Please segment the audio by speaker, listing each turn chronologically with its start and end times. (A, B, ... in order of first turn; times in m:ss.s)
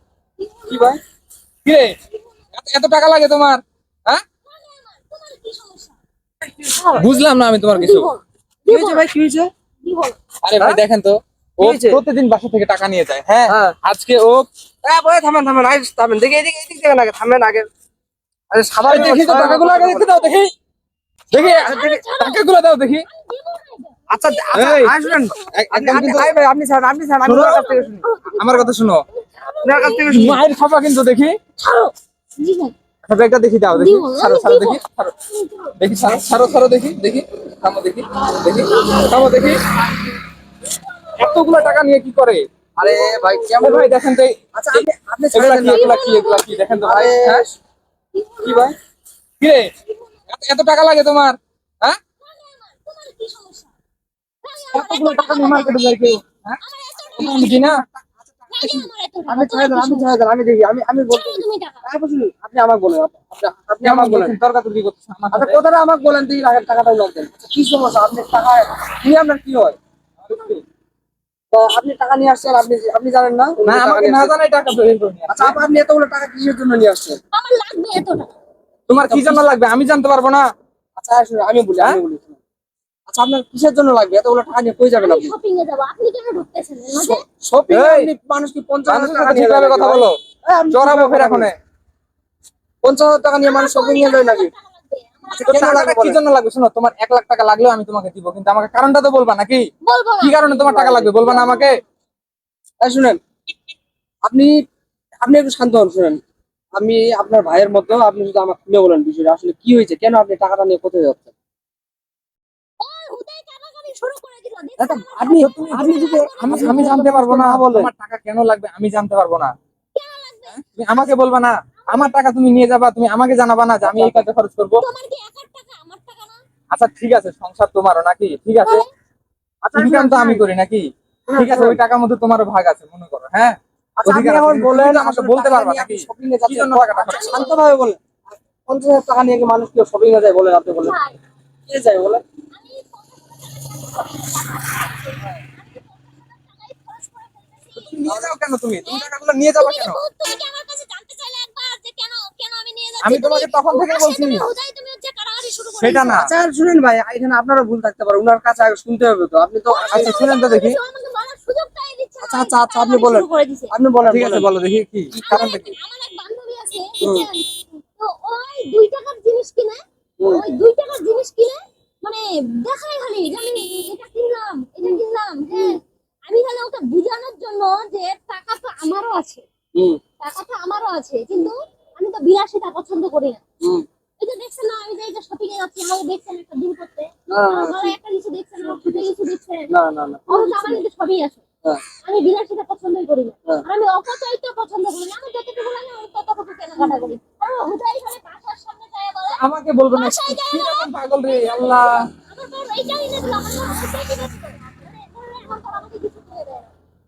0:00.4-0:00.9 A
0:00.7-0:01.0 B
0:01.6-0:01.9 C
0:02.5-0:04.2 C
0:04.4-0:05.9 A
0:06.5-0:07.0 B
0:06.8-0:07.0 A
0:07.0-0:08.1 C
0:07.7-0:09.0 A
0:08.7-0:09.5 B
0:09.8-0:10.2 A
0:10.4-0:14.5 C
0:11.6-0:12.0 B
0:13.5-0:13.8 B
0:14.8-0:17.7 B
0:18.5-0:20.3 B
0:18.8-0:20.5 C
0:21.3-0:23.1 C
0:21.3-0:22.4 A
0:23.1-0:25.6 A
0:24.1-0:28.1 B
0:24.5-0:25.0 C
0:25.5-0:26.3 C
0:27.2-0:29.0 C
0:28.0-0:30.0 A
0:29.6-0:30.4 B
0:30.0-0:31.4 C
0:31.6-0:32.7 A
0:33.0-0:35.1 C
0:33.7-0:35.8 A
0:35.8-0:39.6 C
0:38.8-0:39.1 A
0:40.7-0:41.8 A
0:41.2-0:42.4 C
0:42.8-0:43.9 B
0:42.8-0:43.8 A
0:43.6-0:47.4 C
0:44.5-0:46.0 B
0:45.7-0:46.8 A
0:46.8-0:47.5 B
0:48.1-0:48.7 A
0:48.4-0:48.7 B
0:49.4-0:49.7 C
0:50.3-0:52.0 C
0:52.2-0:53.7 A
0:54.4-0:55.9 A
0:54.7-0:56.6 C
0:56.6-0:57.7 A
0:57.1-0:57.8 C
0:57.2-1:04.3 B
0:58.5-1:00.2 A
1:01.1-1:01.8 A
1:03.8-1:05.6 C
1:05.3-1:09.8 B
1:10.2-1:10.6 C
1:11.5-1:14.4 B
1:13.6-1:15.6 C
1:15.3-1:17.2 B
1:17.3-1:18.3 A
1:18.9-1:20.4 C
1:19.0-1:19.4 B
1:21.0-1:22.4 B
1:23.1-1:25.3 B
1:24.9-1:27.2 A
1:27.0-1:31.5 B
1:27.7-1:28.1 C
1:28.9-1:30.2 C
1:30.7-1:31.5 C
1:32.8-1:34.5 B
1:33.4-1:35.6 A
1:35.3-1:36.2 B
1:35.4-1:39.6 C
1:39.8-1:40.4 A
1:40.2-1:41.8 C
1:40.5-1:41.5 B
1:41.4-1:41.8 A
1:42.8-1:43.2 B
1:44.3-1:44.5 B
1:45.2-1:46.2 B
1:46.8-1:51.3 B
1:52.8-1:57.0 A
1:54.8-1:57.9 B
1:55.4-1:59.5 C
1:59.9-2:00.6 A
2:00.5-2:04.8 C
2:01.8-2:02.2 A
2:03.8-2:04.2 B
2:04.8-2:06.4 A
2:06.7-2:08.8 C
2:09.6-2:10.4 B
2:09.7-2:17.5 C
2:11.3-2:11.8 B
2:14.0-2:18.0 B
2:17.1-2:17.6 A
2:18.6-2:21.0 B
2:20.8-2:21.2 A
2:21.7-2:22.2 B
2:22.5-2:28.2 A
2:27.8-2:30.0 C
2:28.1-2:28.3 B
2:28.8-2:36.2 A
2:33.0-2:34.5 C
2:35.8-2:36.3 C
2:36.1-2:40.2 B
2:39.7-2:43.7 A
2:39.9-2:40.8 C
2:42.2-2:44.5 B
2:44.0-2:45.7 C
2:45.2-2:59.4 A
2:47.0-2:47.3 B
2:59.8-3:00.0 B
3:00.2-3:03.4 A
3:04.2-3:09.7 A
3:07.3-3:07.9 B
3:08.7-3:09.1 B
3:09.7-3:10.8 B
3:10.3-3:11.4 A
3:12.0-3:26.7 A
3:19.4-3:22.0 C